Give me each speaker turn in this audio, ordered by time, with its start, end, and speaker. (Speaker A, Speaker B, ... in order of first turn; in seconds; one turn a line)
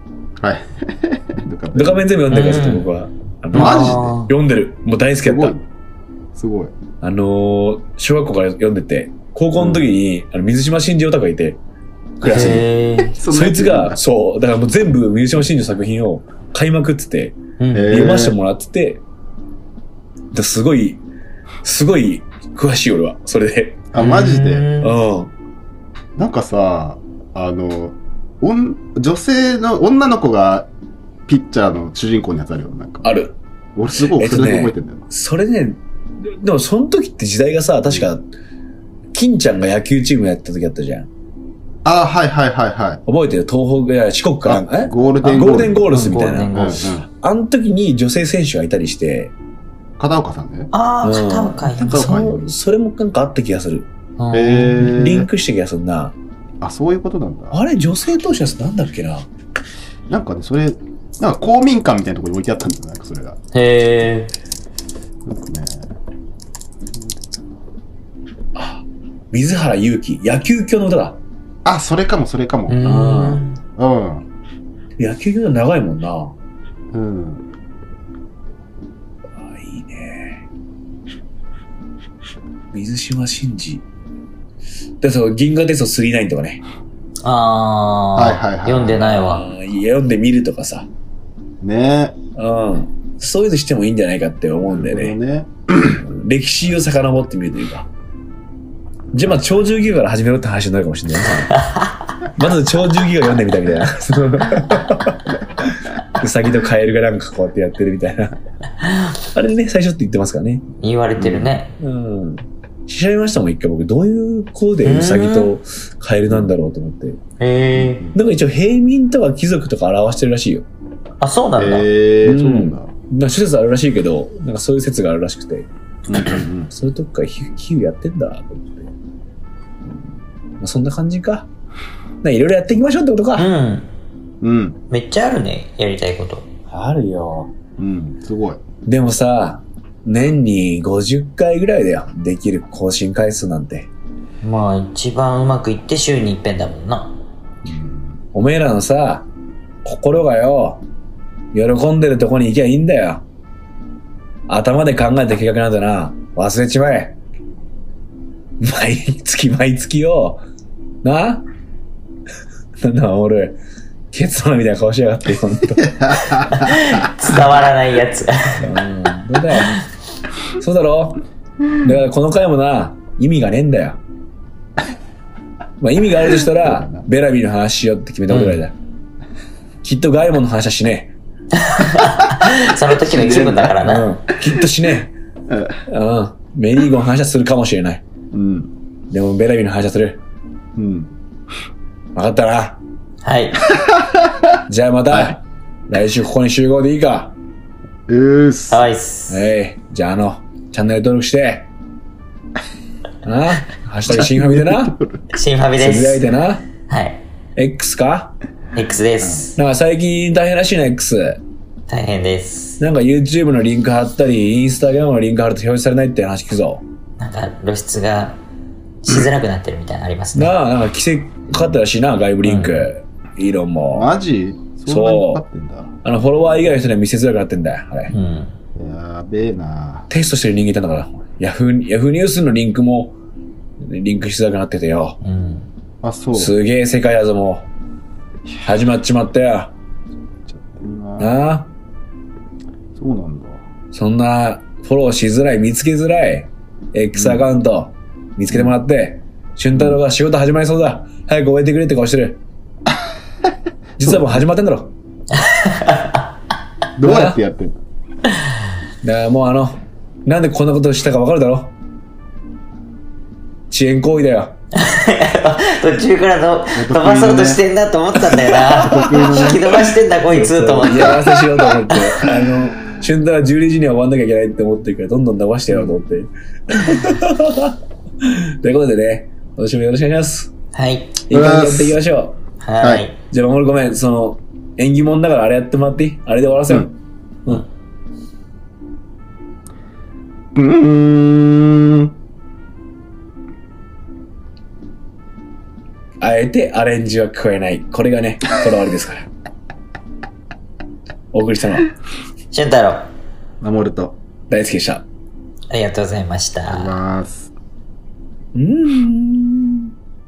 Speaker A: 0.4-2.1
Speaker B: 1.7-5.5
Speaker C: 2.3-2.9
Speaker A: 3.5-4.2
Speaker C: 3.5-4.3
Speaker A: 5.2-5.6
Speaker A: 6.3-6.7
Speaker B: 7.0-11.6
Speaker A: 9.6-9.8
Speaker A: 12.2-14.0
Speaker C: 12.2-13.2
Speaker B: 12.3-12.6
Speaker B: 13.3-19.0
Speaker C: 17.6-18.2
Speaker A: 17.7-18.4
Speaker B: 20.3-21.0
Speaker B: 21.6-23.8
Speaker A: 23.9-24.7
Speaker C: 24.0-25.0
Speaker B: 24.8-25.3
Speaker A: 26.1-30.7
Speaker A: 31.3-33.1
Speaker B: 33.0-33.4
Speaker A: 33.7-35.1
Speaker B: 33.9-38.3
Speaker B: 39.1-41.1
Speaker A: 41.8-43.0
Speaker B: 43.0-49.3
Speaker A: 44.4-47.1
Speaker C: 45.2-46.9
Speaker A: 50.0-50.7
Speaker C: 50.7-52.0
Speaker B: 51.0-53.9
Speaker A: 51.8-52.5
Speaker C: 54.2-55.0
Speaker A: 54.3-55.3
Speaker B: 54.8-56.1
Speaker A: 56.6-57.6
Speaker B: 57.5-59.3
Speaker A: 60.1-63.4
Speaker C: 63.5-64.3
Speaker A: 65.2-65.9
Speaker B: 68.5-71.2
Speaker A: 71.6-73.0
Speaker C: 72.7-73.6
Speaker B: 72.8-73.4
Speaker A: 73.8-74.2
Speaker B: 75.0-76.3
Speaker A: 76.9-77.4
Speaker B: 79.4-80.4
Speaker B: 82.7-83.8
Speaker B: 85.0-86.6
Speaker C: 87.2-89.5
Speaker A: 88.1-89.2
Speaker B: 89.0-90.9
Speaker A: 91.6-92.2
Speaker B: 92.3-95.2
Speaker A: 94.6-96.0
Speaker B: 95.9-97.9
Speaker B: 99.1-101.5
Speaker B: 102.3-108.3
Speaker B: 109.3-110.7
Speaker C: 110.8-111.7
Speaker A: 111.2-111.5
Speaker B: 111.8-117.2
Speaker C: 114.8-115.5
Speaker C: 117.4-118.0
Speaker A: 117.7-118.2
Speaker B: 118.1-120.7
Speaker C: 121.2-121.9
Speaker A: 121.6-122.9
Speaker B: 122.2-125.7
Speaker A: 126.1-126.7
Speaker B: 126.7-128.9
Speaker B: 130.6-131.5
Speaker B: 132.2-133.5
Speaker C: 133.4-133.9
Speaker A: 134.4-134.8
Speaker C: 134.9-136.5
Speaker B: 136.7-137.5
Speaker A: 137.8-138.6
Speaker B: 138.8-143.9
Speaker C: 144.4-147.2
Speaker A: 147.6-148.2
Speaker B: 148.3-149.3
Speaker B: 149.8-150.8
Speaker B: 151.5-153.2
Speaker B: 154.5-157.2
Speaker B: 158.6-160.4
Speaker B: 161.0-161.4
Speaker B: 162.8-163.6
Speaker B: 164.1-166.5
Speaker A: 165.8-166.7
Speaker C: 166.5-168.6
Speaker B: 168.6-169.8
Speaker B: 170.6-171.2
Speaker B: 171.8-174.0
Speaker B: 175.8-178.8
Speaker A: 176.4-177.0
Speaker C: 178.3-178.6
Speaker B: 179.8-181.1
Speaker C: 181.6-184.1
Speaker A: 182.2-183.9
Speaker B: 183.8-185.2
Speaker A: 185.5-185.8
Speaker B: 185.9-188.0
Speaker A: 188.3-188.7
Speaker B: 189.1-190.2
Speaker A: 190.8-191.1
Speaker B: 192.1-192.8
Speaker C: 193.2-193.6
Speaker A: 193.7-194.5
Speaker B: 194.7-197.3
Speaker A: 195.1-195.3
Speaker A: 198.1-198.9
Speaker C: 198.7-199.5
Speaker B: 199.3-201.7
Speaker B: 203.2-205.0
Speaker A: 204.1-205.3
Speaker C: 205.3-206.2
Speaker B: 205.8-206.7
Speaker C: 206.8-207.2
Speaker B: 207.6-208.3
Speaker C: 208.7-209.6
Speaker B: 209.6-211.4
Speaker C: 211.9-212.8
Speaker B: 212.8-216.8
Speaker C: 217.2-218.4
Speaker C: 219.0-220.5
Speaker B: 220.3-224.1
Speaker C: 222.4-222.9
Speaker A: 223.9-225.9
Speaker B: 224.8-225.4
Speaker B: 226.0-228.1
Speaker C: 228.1-228.5
Speaker A: 228.7-230.1
Speaker B: 230.1-233.2
Speaker B: 233.8-235.2
Speaker C: 235.2-235.7
Speaker A: 236.0-236.6
Speaker B: 236.3-237.7
Speaker B: 238.6-239.7
Speaker A: 240.4-241.3
Speaker B: 241.2-241.7
Speaker A: 242.9-243.6
Speaker B: 243.9-252.4
Speaker A: 247.1-247.5
Speaker A: 249.7-250.0
Speaker B: 254.0-254.9
Speaker A: 254.1-254.4
Speaker C: 255.4-256.2
Speaker A: 257.0-257.8
Speaker B: 257.0-257.4
Speaker B: 259.0-261.7
Speaker B: 263.7-264.5
Speaker C: 264.7-272.2
Speaker A: 266.7-267.6
Speaker B: 268.3-280.5
Speaker A: 268.7-269.8
Speaker A: 275.7-275.9
Speaker C: 280.7-281.2
Speaker B: 281.3-282.4
Speaker A: 281.3-282.0
Speaker C: 282.6-283.1
Speaker A: 282.8-283.1
Speaker B: 283.3-287.6
Speaker A: 290.5-292.1
Speaker B: 296.2-299.3
Speaker B: 301.3-301.9
Speaker C: 302.5-303.1
Speaker A: 303.6-304.2
Speaker B: 304.5-305.0
Speaker C: 305.7-306.9
Speaker A: 306.7-307.5
Speaker B: 308.5-309.9